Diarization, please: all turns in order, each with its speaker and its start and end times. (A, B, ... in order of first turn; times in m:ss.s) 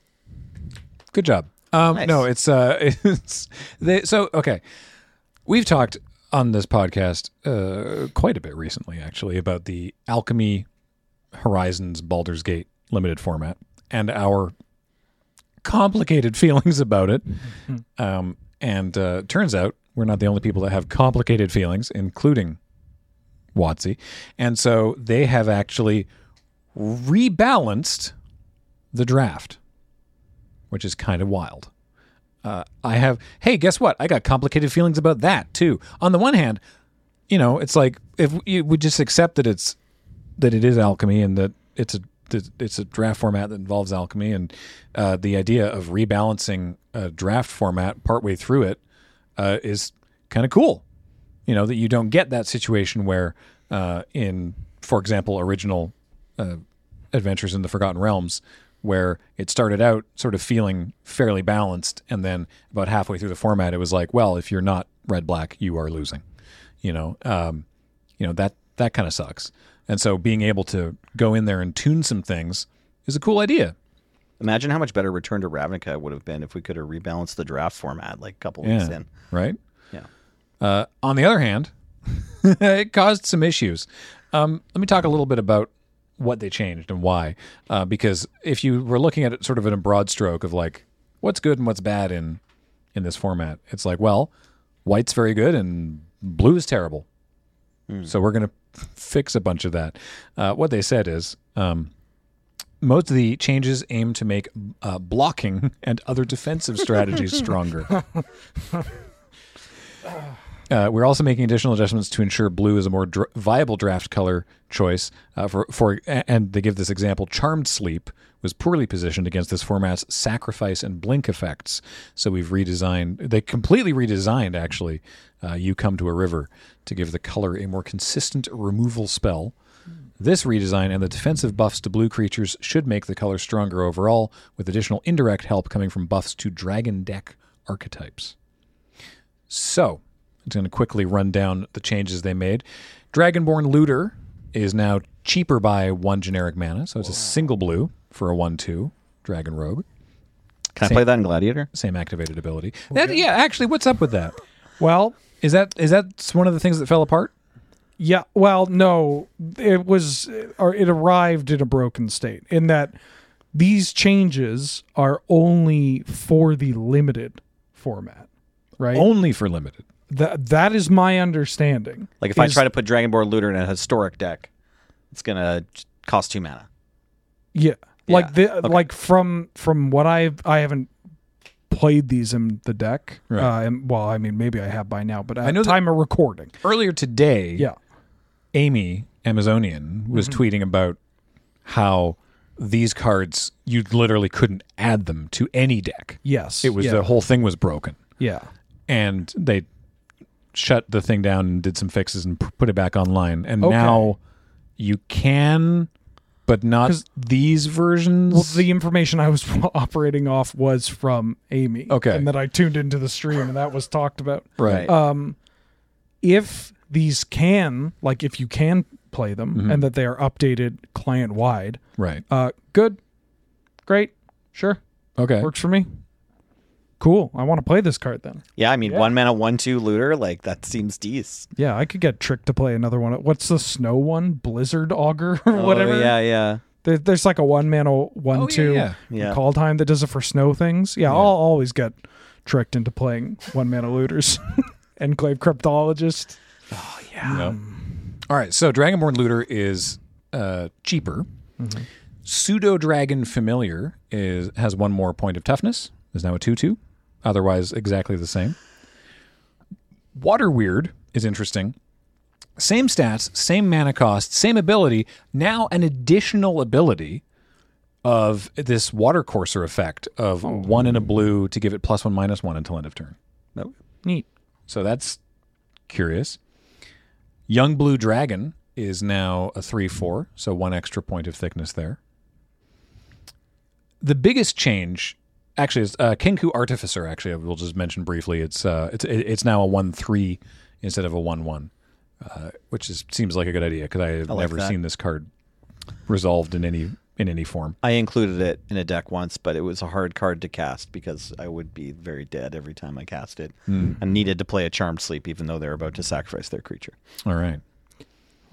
0:01.1-0:04.6 A
0:01.9-0:02.2 B
0:05.5-0:10.7 A
0:11.3-0:14.5 A
0:15.6-0:17.4 A
0:18.0-0:22.6 A
0:23.5-0:26.1 A
0:26.8-0:28.1 A
0:28.9-0:29.6 A
0:30.7-0:31.7 A
0:32.4-0:36.6 A
0:37.3-0:39.8 A
0:40.4-0:48.8 A
0:49.4-0:50.8 A
0:51.5-0:56.6 A
0:57.1-1:06.2 A
1:06.8-1:07.6 A
1:08.2-1:13.8 A
1:14.4-1:19.1 B
1:18.6-1:19.6 A
1:20.6-1:32.4 A
1:33.0-1:34.3 A
1:34.8-1:37.1 A
1:38.1-1:41.9 A
1:42.8-1:48.0 A
1:50.7-2:09.5 A
2:10.2-2:18.4 A
2:19.5-2:29.8 A
2:30.8-2:31.7 B
2:31.7-2:34.4 A
2:32.9-2:33.2 C
2:34.8-2:35.2 C
2:35.4-2:37.3 A
2:38.0-2:43.0 C
2:43.5-2:48.3 C
2:48.8-2:49.1 C
2:48.9-2:49.8 A
2:50.1-2:52.6 C
2:52.2-2:54.5 B
2:55.1-2:56.7 B
2:57.5-3:00.9 C
2:58.1-2:58.8 B
3:01.7-3:06.5 C
3:05.4-3:05.8 A
3:06.6-3:07.7 A
3:08.5-3:11.0 A
3:11.6-3:18.0 A
3:16.2-3:17.0 C
3:18.2-3:18.5 C
3:18.9-3:19.7 A
3:20.5-3:24.2 A
3:23.6-3:24.1 C
3:24.8-3:25.9 A
3:26.5-3:28.6 A
3:28.3-3:35.4 C
3:31.9-3:32.3 A
3:34.6-3:34.9 A
3:34.6-3:34.9 B
3:36.2-3:43.0 C
3:39.5-3:39.9 A
3:42.0-3:42.2 A
3:43.9-3:44.8 C
3:45.2-3:45.5 A
3:45.4-3:45.9 C
3:47.0-3:49.1 C
3:48.6-3:51.5 B
3:51.6-3:56.2 C
3:55.5-3:56.6 B
3:56.8-4:07.9 C
3:58.3-3:59.0 A
3:59.1-3:59.4 B
4:01.1-4:01.3 A
4:07.2-4:07.6 A
4:08.3-4:11.3 A
4:11.6-4:11.9 C
4:12.2-4:18.6 A
4:20.2-4:21.8 A
4:22.6-4:27.2 A
4:28.0-4:33.2 A
4:34.7-4:35.2 A
4:35.9-4:36.4 A
4:37.5-4:42.0 A
4:44.0-4:55.3 A
4:54.3-4:54.7 B
4:56.1-4:57.8 A
4:57.8-5:07.0 B
5:03.7-5:04.0 A
5:07.2-5:07.6 A